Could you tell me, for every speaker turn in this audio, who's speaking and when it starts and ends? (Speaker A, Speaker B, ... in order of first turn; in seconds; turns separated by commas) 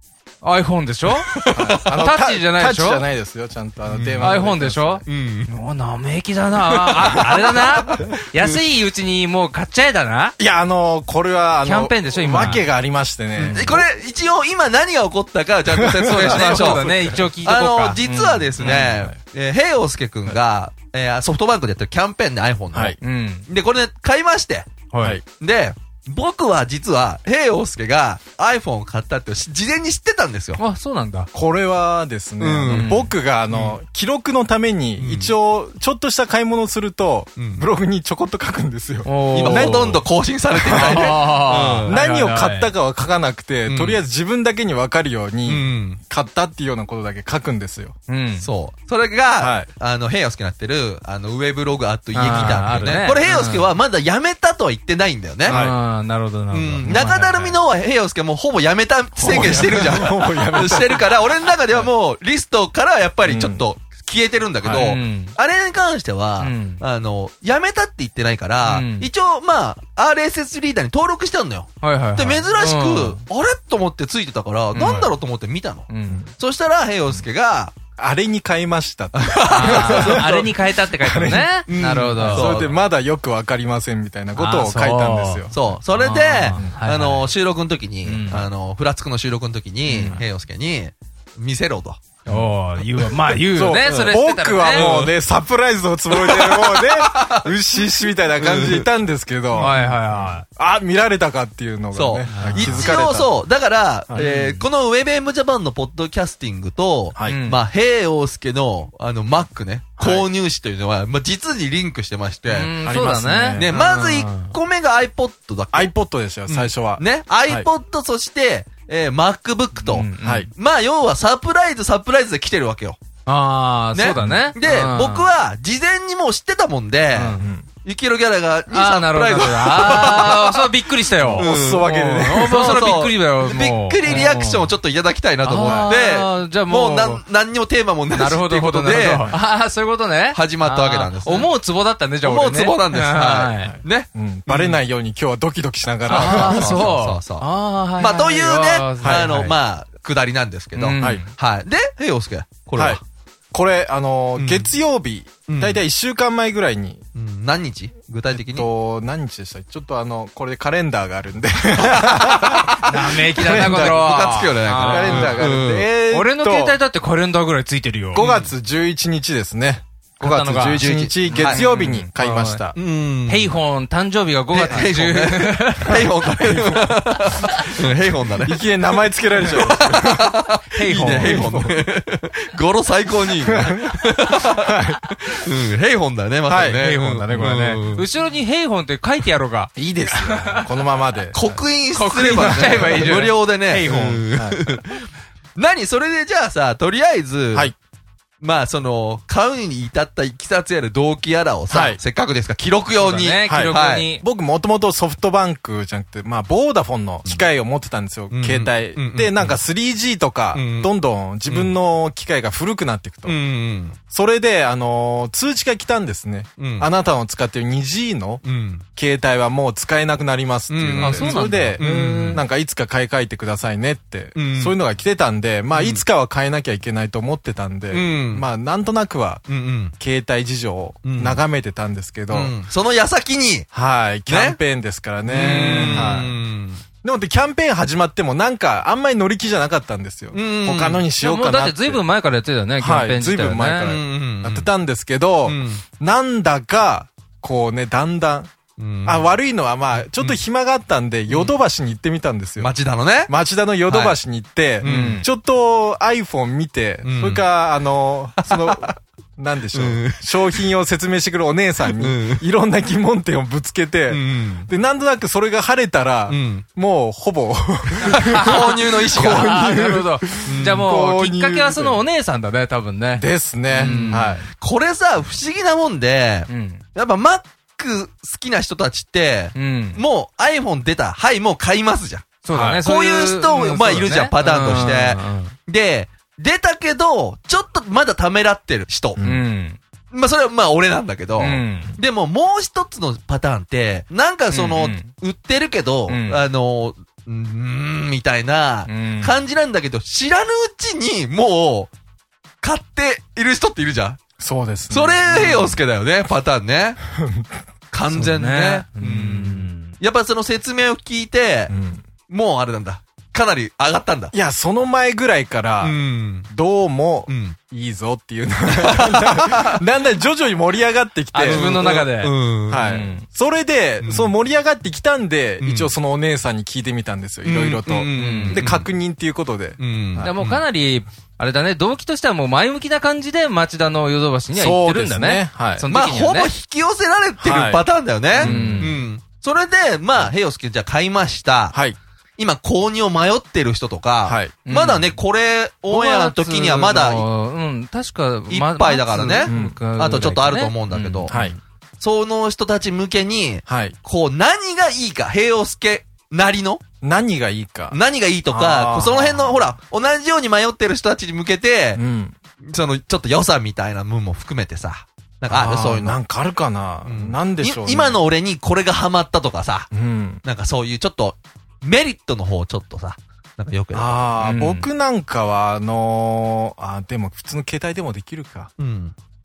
Speaker A: 0.4-3.0, Speaker B: 1.2-1.8, Speaker C: 1.5-5.0, Speaker B: 3.9-4.4, Speaker A: 4.2-10.3, Speaker B: 5.0-5.5, Speaker B: 6.6-8.6, Speaker C: 10.4-13.8, Speaker A: 11.6-12.6, Speaker B: 12.3-12.6, Speaker A: 13.4-13.7, Speaker B: 13.4-24.7, Speaker C: 15.7-17.3, Speaker A: 16.0-18.9, Speaker C: 18.6-19.2, Speaker C: 22.7-23.0, Speaker A: 23.0-23.5, Speaker A: 24.9-25.2, Speaker B: 25.4-30.6, Speaker A: 30.6-31.3, Speaker C: 31.3-39.9, Speaker B: 32.4-33.0, Speaker A: 32.7-33.1, Speaker B: 33.5-33.8, Speaker B: 35.0-35.3, Speaker B: 37.4-37.6, Speaker A: 39.0-40.0, Speaker B: 39.3-41.9, Speaker C: 40.5-47.9, Speaker A: 40.7-42.7, Speaker B: 43.6-44.0, Speaker B: 45.5-46.0, Speaker A: 48.1-48.5, Speaker B: 48.4-55.6, Speaker C: 49.4-49.7, Speaker A: 52.1-53.7, Speaker C: 52.3-52.8, Speaker A: 55.5-57.6, Speaker C: 55.5-55.8, Speaker B: 56.5-77.7, Speaker C: 56.8-57.1, Speaker C: 59.2-61.2, Speaker C: 63.2-63.6, Speaker C: 64.6-64.9, Speaker A: 64.7-65.3, Speaker A: 66.4-66.8, Speaker A: 68.6-69.1, Speaker A: 71.8-73.2, Speaker A: 74.7-75.1, Speaker A: 75.9-76.2, Speaker C: 76.1-76.3, Speaker C: 78.0-85.8, Speaker B: 79.2-80.5, Speaker A: 79.5-82.7, Speaker B: 81.7-82.8, Speaker A: 84.3-87.3, Speaker B: 85.5-92.0, Speaker A: 88.0-88.5, Speaker C: 89.9-90.2, Speaker A: 92.3-94.9, Speaker C: 92.3-103.4, Speaker B: 94.7-95.1, Speaker B: 96.1-97.5, Speaker B: 98.4-98.8, Speaker A: 99.5-100.4, Speaker B: 101.9-112.7, Speaker A: 102.3-102.9, Speaker A: 104.1-104.6, Speaker C: 107.1-107.4, Speaker A: 107.3-107.6, Speaker C: 110.0-110.3, Speaker A: 112.5-114.5, Speaker C: 112.8-113.7, Speaker B: 113.6-115.9, Speaker C: 115.7-117.7, Speaker B: 116.5-123.0, Speaker A: 119.8-120.5, Speaker C: 120.2-120.5, Speaker A: 123.2-125.3, Speaker B: 123.9-130.7, Speaker C: 124.2-124.5, Speaker A: 127.1-127.5, Speaker C: 127.4-127.7, Speaker A: 128.7-134.7, Speaker C: 131.2-132.9, Speaker B: 131.4-139.3, Speaker A: 135.4-137.2, Speaker C: 135.6-135.9, Speaker A: 138.1-143.8, Speaker C: 139.1-139.4, Speaker B: 140.3-141.5, Speaker B: 142.2-144.8, Speaker C: 143.6-146.9, Speaker A: 146.1-149.5, Speaker B: 146.1-153.0, Speaker A: 150.7-151.3, Speaker C: 152.8-153.0, Speaker C: 153.5-157.0, Speaker B: 154.4-154.7, Speaker B: 155.5-155.8, Speaker B: 157.1-158.7, Speaker C: 158.3-166.8, Speaker B: 161.8-165.9, Speaker A: 162.8-165.5, Speaker A: 166.1-168.2, Speaker C: 168.1-172.8, Speaker B: 168.2-168.5, Speaker A: 170.2-172.7, Speaker B: 170.8-171.6, Speaker B: 172.7-173.5, Speaker A: 173.2-176.1, Speaker B: 174.5-178.6, Speaker A: 177.3-177.6, Speaker C: 178.4-180.3, Speaker B: 179.4-184.7, Speaker A: 180.7-181.5, Speaker C: 180.9-181.8, Speaker C: 183.4-184.1, Speaker C: 184.6-185.0, Speaker B: 185.3-188.0, Speaker C: 186.5-187.6, Speaker A: 187.3-190.7, Speaker C: 189.8-191.6, Speaker B: 191.3-197.7, Speaker A: 191.9-194.2, Speaker C: 192.3-193.3, Speaker C: 193.8-194.8, Speaker B: 198.4-204.1, Speaker C: 201.7-202.0, Speaker A: 202.9-204.2, Speaker C: 203.4-213.4, Speaker B: 208.3-209.6, Speaker B: 210.5-210.9, Speaker B: 211.5-211.7, Speaker B: 213.2-214.0, Speaker C: 214.1-218.4, Speaker B: 216.6-216.9, Speaker B: 218.4-218.8, Speaker C: 218.9-229.4, Speaker B: 220.7-222.4, Speaker A: 220.9-222.4, Speaker B: 224.3-224.8, Speaker B: 225.7-226.0, Speaker B: 227.9-228.4, Speaker B: 229.5-229.9, Speaker C: 230.0-232.5, Speaker B: 231.0-231.4, Speaker B: 232.3-233.7, Speaker C: 233.7-236.4, Speaker B: 234.3-234.6, Speaker B: 235.3-236.8, Speaker A: 235.3-236.2, Speaker C: 237.0-242.0, Speaker B: 240.3-241.0, Speaker A: 241.2-243.9, Speaker C: 242.8-248.5, Speaker B: 243.8-244.7, Speaker B: 245.4-245.8, Speaker B: 248.8-249.3, Speaker C: 249.0-252.7, Speaker B: 251.3-251.6, Speaker B: 252.6-253.3, Speaker C: 253.2-272.0, Speaker B: 253.9-254.2, Speaker B: 254.8-255.2, Speaker A: 254.8-255.3, Speaker B: 257.0-257.5, Speaker B: 258.4-258.9, Speaker B: 259.7-260.4, Speaker B: 261.9-262.4, Speaker B: 264.1-264.7, Speaker B: 266.3-266.6, Speaker A: 268.0-274.4, Speaker B: 268.1-269.6, Speaker B: 270.5-270.9, Speaker C: 273.1-274.5, Speaker B: 273.7-282.3, Speaker A: 276.5-276.8, Speaker A: 279.5-280.0, Speaker A: 282.4-285.6, Speaker C: 282.5-282.8, Speaker B: 282.8-289.2, Speaker C: 289.2-289.5, Speaker A: 289.2-289.8, Speaker B: 290.1-301.9, Speaker A: 291.4-291.9, Speaker A: 294.5-295.1, Speaker A: 296.1-296.4, Speaker A: 298.9-299.4, Speaker B: 302.6-304.2, Speaker C: 304.4-305.8, Speaker B: 304.9-307.0, Speaker C: 307.1-307.5, Speaker B: 307.9-311.7, Speaker A: 308.1-310.0, Speaker C: 311.7-312.0, Speaker B: 312.3-314.3, Speaker C: 314.3-322.0, Speaker B: 315.8-316.5, Speaker B: 317.3-317.6, Speaker B: 318.8-319.7, Speaker A: 321.3-323.2, Speaker B: 321.4-322.8, Speaker C: 322.7-330.3, Speaker B: 324.0-324.3, Speaker B: 325.6-325.9, Speaker B: 327.4-328.9, Speaker A: 328.1-328.7, Speaker B: 329.8-330.6, Speaker A: 330.2-336.5, Speaker C: 334.5-335.9, Speaker B: 335.9-341.8, Speaker C: 337.4-339.0, Speaker A: 338.4-339.0, Speaker C: 341.7-342.0, Speaker B: 342.4-347.2, Speaker C: 344.2-344.6, Speaker A: 344.6-345.1, Speaker A: 345.9-351.6, Speaker B: 348.5-351.3, Speaker C: 349.4-349.8, Speaker C: 351.3-351.6, Speaker B: 352.0-356.8, Speaker C: 353.7-353.9, Speaker C: 357.0-358.0, Speaker B: 357.9-362.0, Speaker C: 358.5-359.6, Speaker C: 361.9-362.4, Speaker B: 362.6-366.2, Speaker C: 365.5-368.2, Speaker B: 367.0-369.9, Speaker C: 369.9-370.4, Speaker B: 370.4-374.3, Speaker C: 373.9-378.7, Speaker A: 374.4-374.9, Speaker B: 378.8-379.1